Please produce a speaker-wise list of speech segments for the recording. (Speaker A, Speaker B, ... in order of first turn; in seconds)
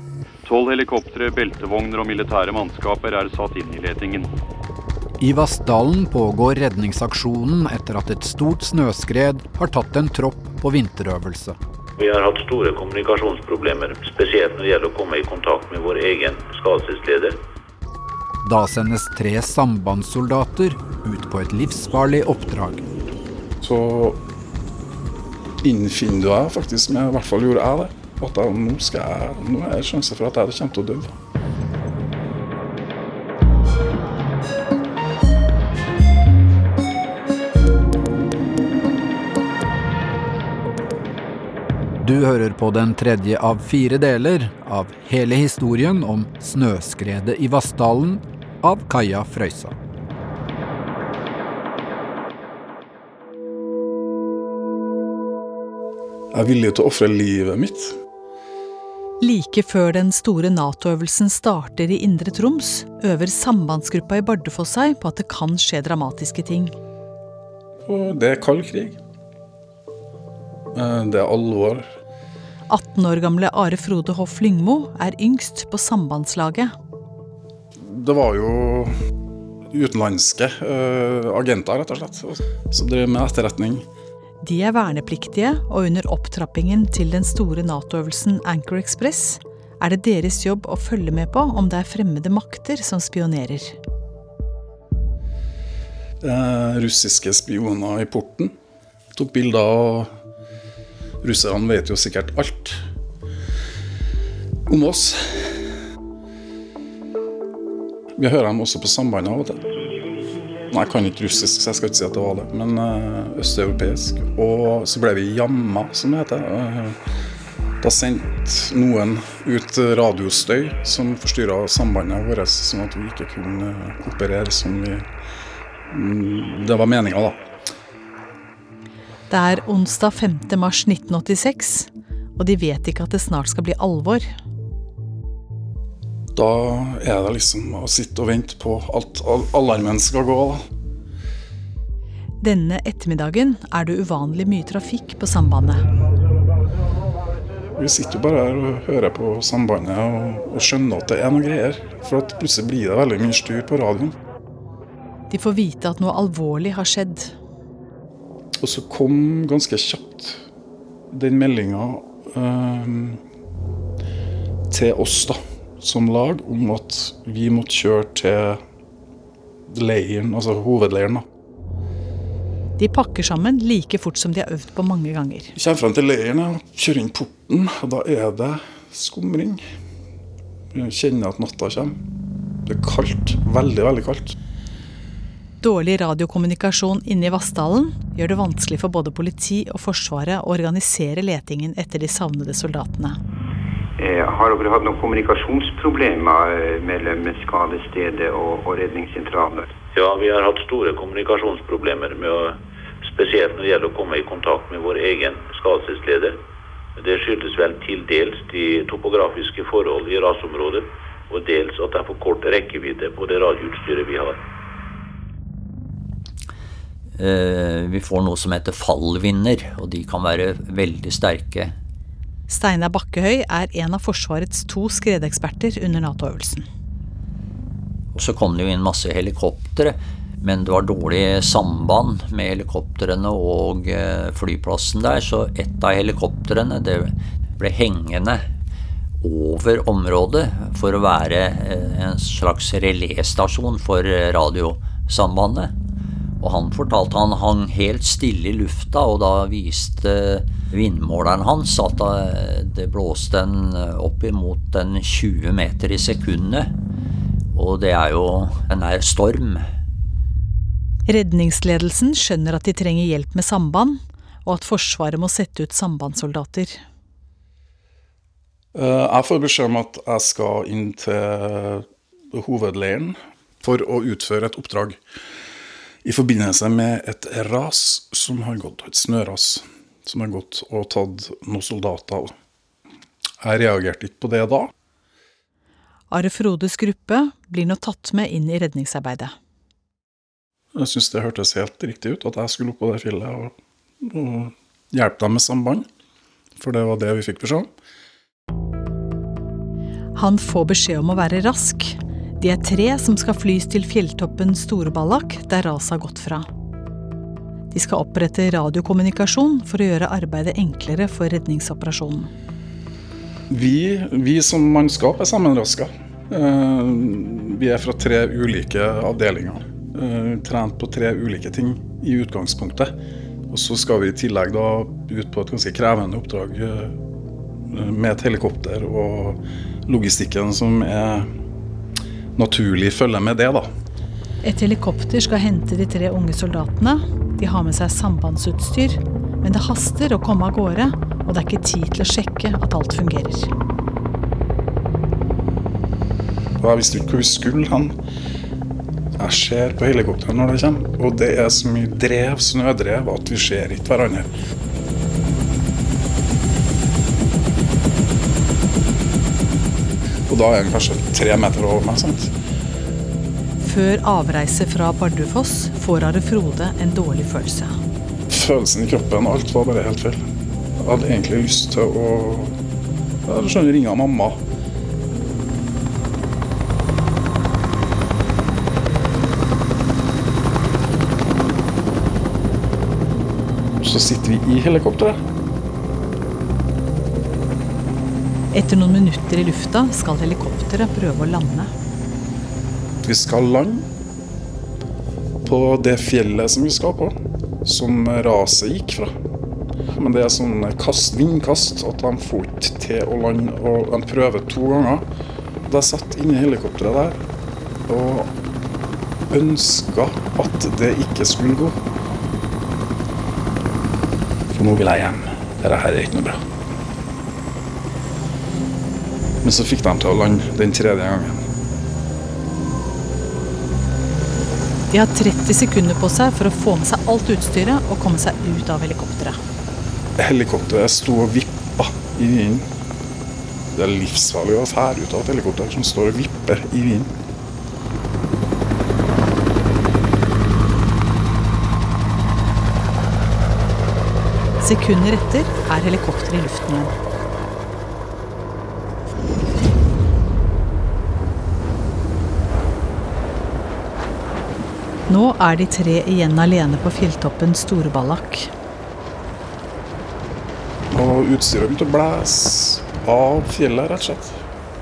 Speaker A: 0.4-4.3
Speaker B: 5.2-11.6, 18.4-22.8, 42.0-49.7
Speaker C: 12.0-17.4, 199.9-206.4, 207.0-214.4
Speaker D: 23.6-24.2, 25.6-31.1, 56.3-58.0, 67.9-69.0, 70.7-72.0, 77.8-78.9, 79.7-83.9, 96.2-98.5, 99.2-100.1, 101.2-102.8, 104.7-105.6, 108.2-109.6, 110.7-117.0, 117.8-125.0, 125.9-127.5, 136.3-140.6, 147.8-154.2, 158.6-160.4, 161.1-163.2, 164.7-168.6, 169.7-171.3, 175.6-179.6, 180.7-182.0, 182.7-184.4, 268.8-275.0, 276.0-282.3, 283.4-284.7, 290.8-295.9, 296.6-297.7, 313.5-322.9, 323.5-327.0, 327.7-331.3, 332.4-333.7, 346.6-348.0, 349.2-354.3, 360.3-362.3, 368.3-370.2, 370.8-372.6, 373.3-374.4, 383.8-385.2, 393.0-393.9, 395.4-399.1, 399.9-405.1, 405.7-407.2, 407.9-408.3, 409.3-411.8, 414.5-416.4, 419.4-421.4, 430.2-432.7, 433.7-437.1, 460.9-464.4
Speaker E: 59.2-66.8, 72.7-76.7, 84.4-93.8, 129.3-134.3, 142.4-145.8, 155.3-157.3, 172.8-175.5, 185.6-193.2, 222.5-226.7, 261.1-266.8, 286.1-289.3, 300.2-306.5, 307.7-312.3, 334.4-343.5, 363.6-367.8, 388.5-391.7, 424.9-429.4, 444.6-446.9, 455.1-458.5
Speaker F: 194.0-199.7
Speaker G: 217.2-221.8, 228.2-238.5, 239.2-245.7, 246.4-256.7, 257.5-259.7